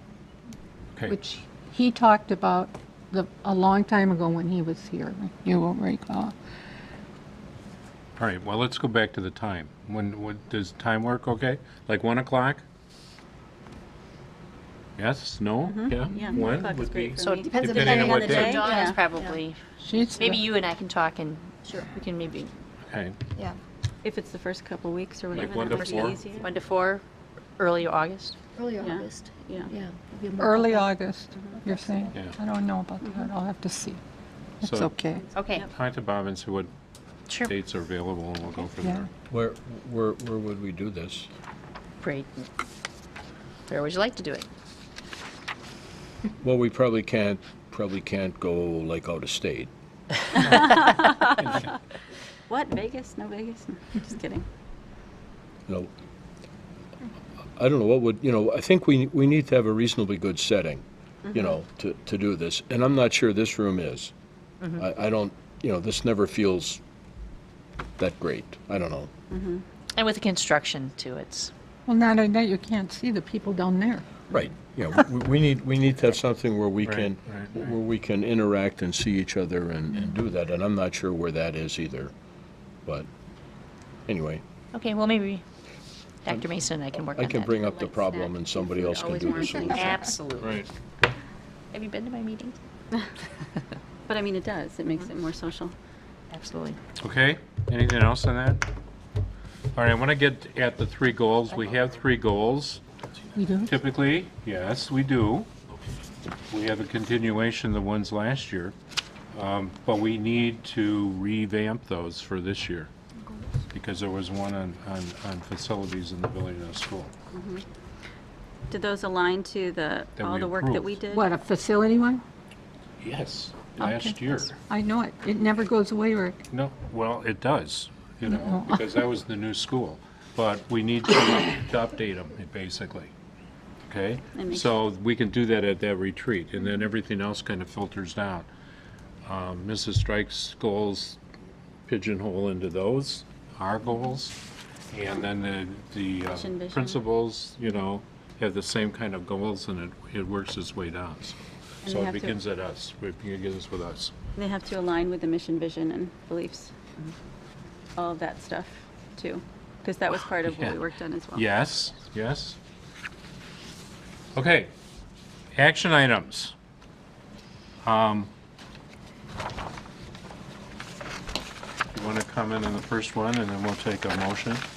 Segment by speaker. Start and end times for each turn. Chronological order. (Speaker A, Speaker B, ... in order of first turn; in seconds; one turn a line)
Speaker A: 1.0-6.3
Speaker B: 8.2-12.6
Speaker B: 15.0-18.6
Speaker C: 15.7-19.0
Speaker D: 17.2-19.6
Speaker E: 17.4-19.4
Speaker A: 19.8-20.4
Speaker D: 20.2-22.5
Speaker E: 21.6-21.9
Speaker B: 22.9-23.2
Speaker C: 24.0-26.5
Speaker B: 25.3-26.2
Speaker D: 25.4-27.0
Speaker D: 27.6-28.4
Speaker E: 28.5-30.9
Speaker C: 28.8-29.7
Speaker A: 30.4-34.0
Speaker E: 31.6-32.2
Speaker C: 33.0-33.3
Speaker A: 34.6-35.3
Speaker B: 34.6-34.9
Speaker C: 35.2-35.7
Speaker D: 35.3-35.6
Speaker B: 35.7-36.7
Speaker D: 37.3-37.5
Speaker B: 37.4-39.1
Speaker A: 38.8-39.1
Speaker F: 39.3-41.3
Speaker D: 42.0-42.5
Speaker D: 43.7-44.5
Speaker F: 46.4-49.7
Speaker C: 50.3-51.8
Speaker C: 52.5-54.4
Speaker F: 57.6-64.1
Speaker C: 61.2-61.5
Speaker F: 64.8-66.8
Speaker F: 68.0-69.1
Speaker C: 69.3-69.6
Speaker D: 70.0-71.5
Speaker A: 71.8-74.2
Speaker F: 74.3-82.1
Speaker B: 76.8-77.5
Speaker F: 84.1-84.4
Speaker D: 84.7-85.4
Speaker D: 86.2-90.6
Speaker F: 87.1-90.0
Speaker C: 89.0-89.6
Speaker B: 90.4-90.7
Speaker D: 91.7-92.5
Speaker C: 94.1-95.7
Speaker D: 96.3-96.8
Speaker B: 97.0-98.6
Speaker B: 99.7-102.8
Speaker A: 103.3-103.7
Speaker B: 103.7-105.5
Speaker B: 106.5-108.7
Speaker B: 109.3-112.9
Speaker B: 113.7-117.1
Speaker C: 117.3-117.6
Speaker C: 118.7-121.2
Speaker B: 120.2-121.0
Speaker A: 121.1-122.2
Speaker B: 123.0-124.6
Speaker A: 123.8-126.4
Speaker B: 126.5-133.1
Speaker A: 128.2-129.1
Speaker B: 133.9-138.5
Speaker C: 134.3-134.8
Speaker B: 139.2-141.2
Speaker B: 141.9-144.4
Speaker B: 144.9-154.2
Speaker C: 146.2-147.0
Speaker C: 151.8-152.4
Speaker C: 154.3-157.1
Speaker C: 158.0-161.5
Speaker B: 160.4-160.8
Speaker B: 161.3-162.6
Speaker B: 164.3-164.7
Speaker B: 165.6-166.5
Speaker B: 167.8-168.3
Speaker B: 171.9-174.6